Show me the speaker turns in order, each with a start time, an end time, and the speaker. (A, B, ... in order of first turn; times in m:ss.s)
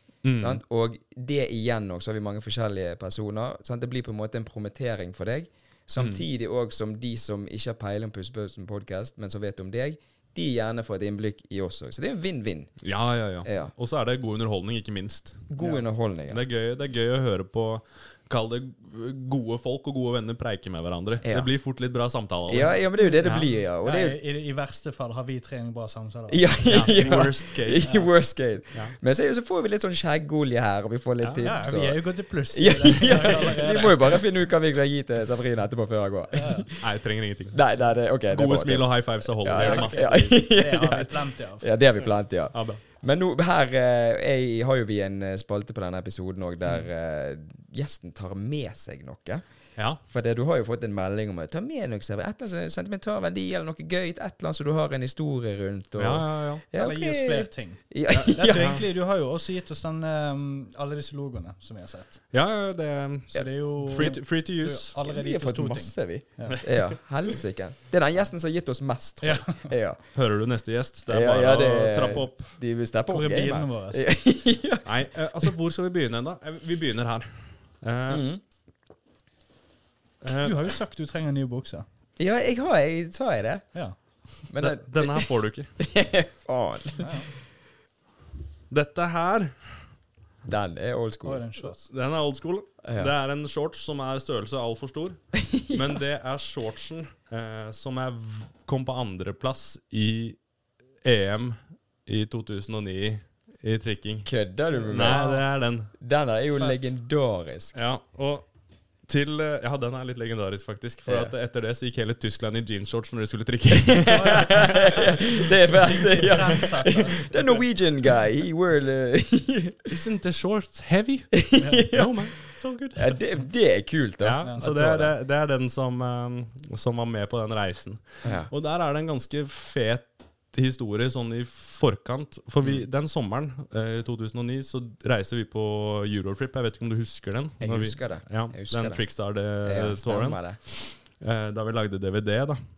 0:00.2-0:00.6 A
0:00.4-0:12.7 B
0:06.0-0:06.2 A
0:12.8-0:15.5 A
0:13.4-0:13.7 B
0:15.5-0:16.4 B
0:16.3-0:23.5 A
0:21.2-0:21.5 B
0:22.5-0:24.2 B
0:23.8-0:27.3 C
0:26.3-0:36.8 B
0:26.7-0:28.0 A
0:27.8-0:28.1 C
0:31.2-0:31.5 A
0:31.4-0:34.2 C
0:36.3-0:36.7 C
0:36.8-0:40.4 A
0:37.5-0:49.4 B
0:39.6-0:41.7 C
0:42.5-0:42.8 A
0:50.1-0:58.7 B
0:56.0-0:56.6 A
0:56.8-1:02.2 C
0:58.1-0:58.8 A
1:02.3-1:05.0 A
1:03.3-1:06.6 C
1:05.0-1:10.0 B
1:09.2-1:09.7 C
1:10.2-1:12.5 A
1:11.1-1:14.9 B
1:13.1-1:14.0 C
1:14.8-1:17.3 A
1:17.8-1:18.2 A
1:18.1-1:18.4 B
1:20.2-1:20.6 A
1:20.4-1:21.8 C
1:22.2-1:23.6 B
1:24.5-1:27.1 B
1:24.6-1:25.7 A
1:27.0-1:27.3 C
1:28.7-1:29.6 A
1:30.4-1:31.5 B
1:31.2-1:31.8 C
1:31.7-1:40.4 A
1:32.8-1:33.1 B
1:35.4-1:35.7 B
1:41.0-1:45.9 A
1:44.3-1:45.3 B
1:45.1-1:45.4 C
1:46.0-1:47.8 B
1:47.7-1:48.5 A
1:49.1-1:55.0 A
1:51.1-1:51.3 B
1:54.1-1:55.1 C
1:54.1-1:59.9 B
1:55.7-1:57.3 C
1:59.9-2:03.2 A
2:01.3-2:02.3 B
2:01.6-2:01.9 C
2:03.0-2:04.9 B
2:04.2-2:22.6 A
2:04.4-2:05.1 C
2:08.2-2:08.5 B
2:17.6-2:19.0 B
2:19.6-2:20.6 B